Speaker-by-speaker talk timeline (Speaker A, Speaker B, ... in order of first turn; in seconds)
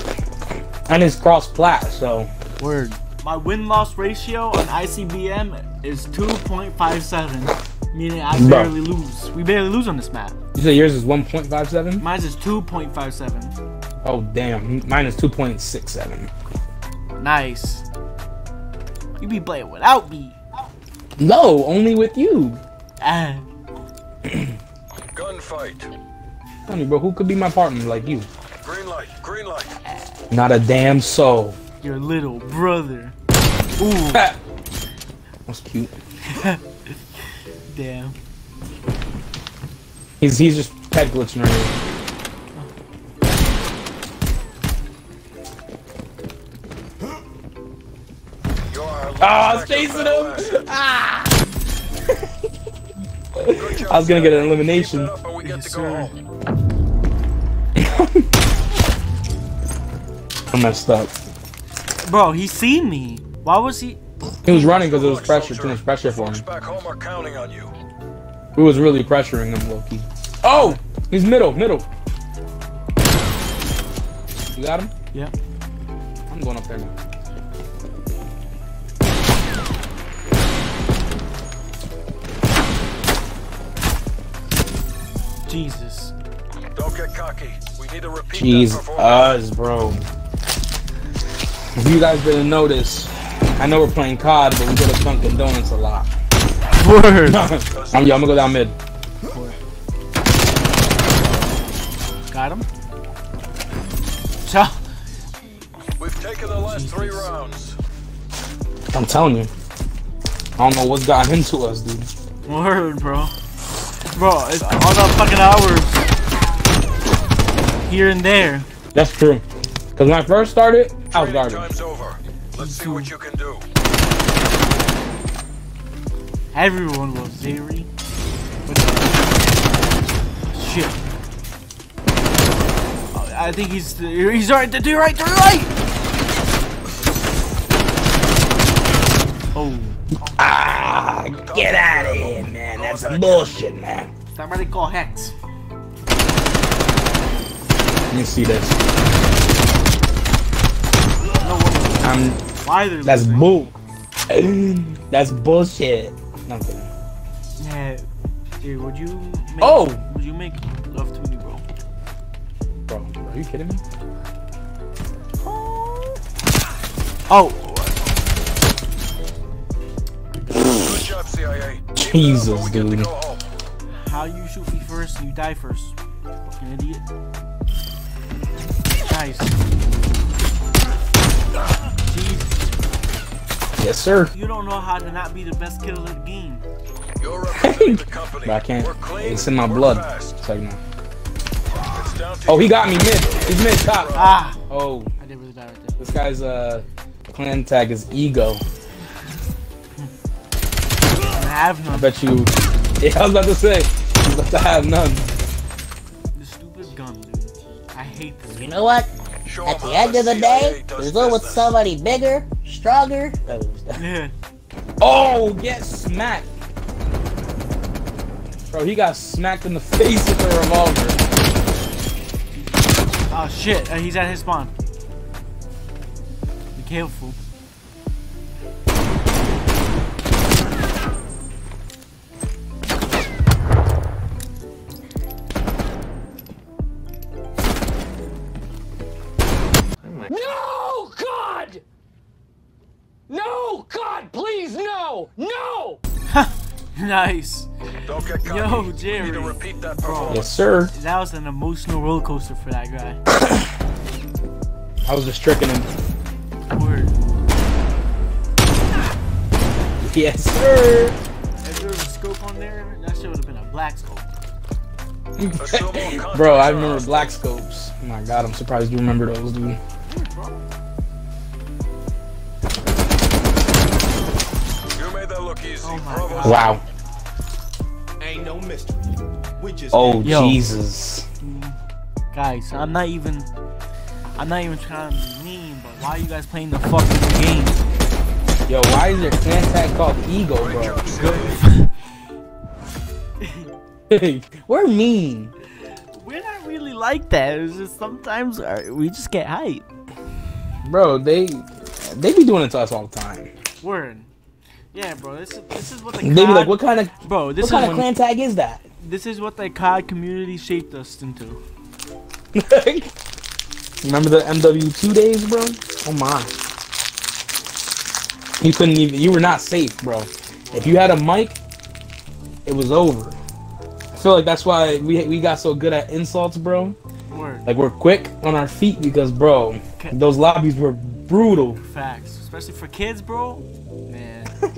Speaker A: 0.9-2.3, 8.3-8.7, 10.5-12.0, 14.0-16.3, 21.2-22.6, 24.2-24.6, 26.7-28.3, 30.3-31.6, 34.1-34.4, 35.5-35.9, 40.2-41.7, 49.2-51.4, 53.4-55.1, 57.8-58.3, 60.5-61.1, 64.4-66.4, 68.5-71.8, 74.5-74.9, 76.3-76.9, 88.3-90.1, 91.8-96.1, 97.2-98.7, 108.9-109.5, 110.6-112.1, 118.9-119.4, 120.0-121.7, 140.4-144.1, 148.1-148.8, 152.0-152.4, 153.0-153.7, 154.3-156.9, 159.6-160.0, 162.9-163.8, 171.9-173.1, 183.8-184.3, 187.5-190.8, 192.5-195.1, 196.0-198.6, 201.9-205.3, 213.4-214.0, 215.0-216.5, 218.7-221.2, 250.3-250.9, 253.3-253.7, 255.1-255.9, 260.0-261.2, 265.4-269.8, 276.4-276.8, 279.9-281.2, 288.7-291.0, 294.1-295.5, 300.8-303.5, 306.2-308.8, 312.5-313.1, 314.0-316.5, 318.6-321.6, 322.6-323.4, 324.1-326.9, 327.6-331.8
Speaker B: 2.6-10.4, 12.0-13.5, 17.1-17.8, 19.2-20.4, 23.0-23.4, 31.8-33.1, 33.8-34.2, 36.2-38.1, 55.4-56.1, 62.0-64.0, 70.5-70.8, 85.5-86.1, 96.8-97.5, 99.2-99.5, 102.3-102.7, 104.4-104.8, 106.7-107.3, 112.5-113.3, 114.1-116.0, 117.8-118.7, 122.6-123.1, 126.5-127.9, 128.7-129.4, 130.5-131.0, 133.1-135.7, 139.5-140.0, 144.3-145.3, 151.4-153.5, 157.6-158.1, 158.6-161.6, 165.4-166.2, 167.3-167.9, 173.9-175.9, 176.5-177.0, 179.0-179.6, 182.0-182.6, 184.3-186.6, 194.1-194.6, 195.2-195.9, 201.3-202.1, 206.3-208.7, 213.9-214.3, 223.3-224.7, 226.8-227.4, 246.3-247.7, 248.3-253.2, 256.7-257.1, 261.6-264.3, 270.1-270.6, 275.8-276.7, 280.2-280.6, 281.4-281.8, 282.3-283.5, 284.4-287.8, 291.0-291.9, 293.4-293.7, 296.1-299.9, 303.8-304.3, 304.9-308.1, 309.0-311.6, 327.3-327.7, 331.8-334.5
Speaker C: 25.1-25.9, 28.6-29.7, 48.7-50.6, 53.5-56.1, 64.6-67.7, 86.7-89.4, 97.7-98.2, 106.0-107.8, 121.1-123.6, 141.3-143.5, 170.6-173.5, 187.2-190.4, 191.9-194.4, 209.4-211.8, 248.1-250.5, 265.6-267.4, 274.9-276.7, 290.6-291.6
Speaker D: 208.5-209.1, 209.6-213.4
Speaker E: 244.1-244.3, 278.2-280.4